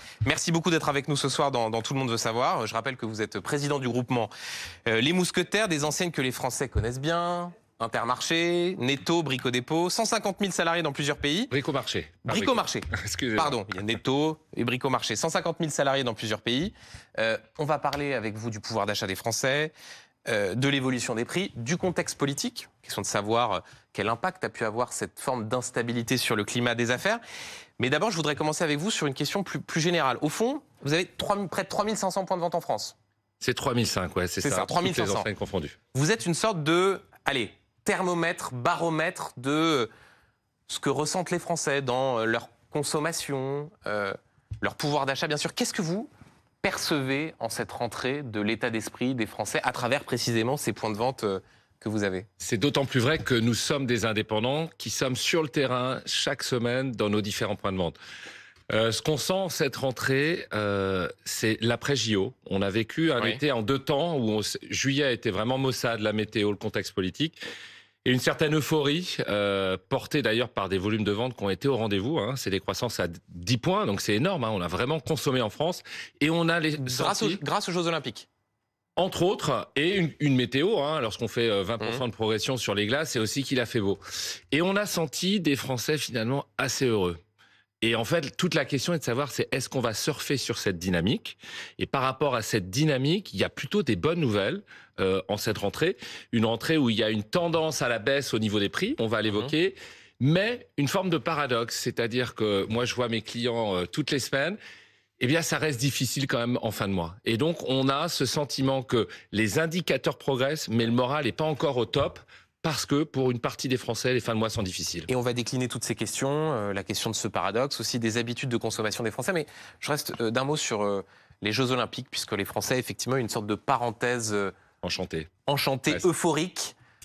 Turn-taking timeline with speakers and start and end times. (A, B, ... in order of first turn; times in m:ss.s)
0:00.2-0:04.3 A
0:04.9-0:11.5 A
0:11.5-0:13.6 B
0:12.3-0:19.7 A
0:20.3-0:27.2 A
0:27.8-0:33.0 A
0:33.4-0:35.8 B
0:34.4-0:35.3 A
0:35.9-0:39.9 A
0:40.7-0:46.1 A
0:46.6-0:52.3 A
0:52.4-0:58.0 B
0:58.7-1:07.4 B
1:08.0-1:17.4 B
1:16.8-1:18.3 A
1:19.0-1:24.0 B
1:24.5-1:27.2 B
1:27.8-1:44.6 B
1:45.2-1:55.1 B
1:55.1-2:04.5 A
2:04.8-2:05.3 B
2:05.5-2:06.8 A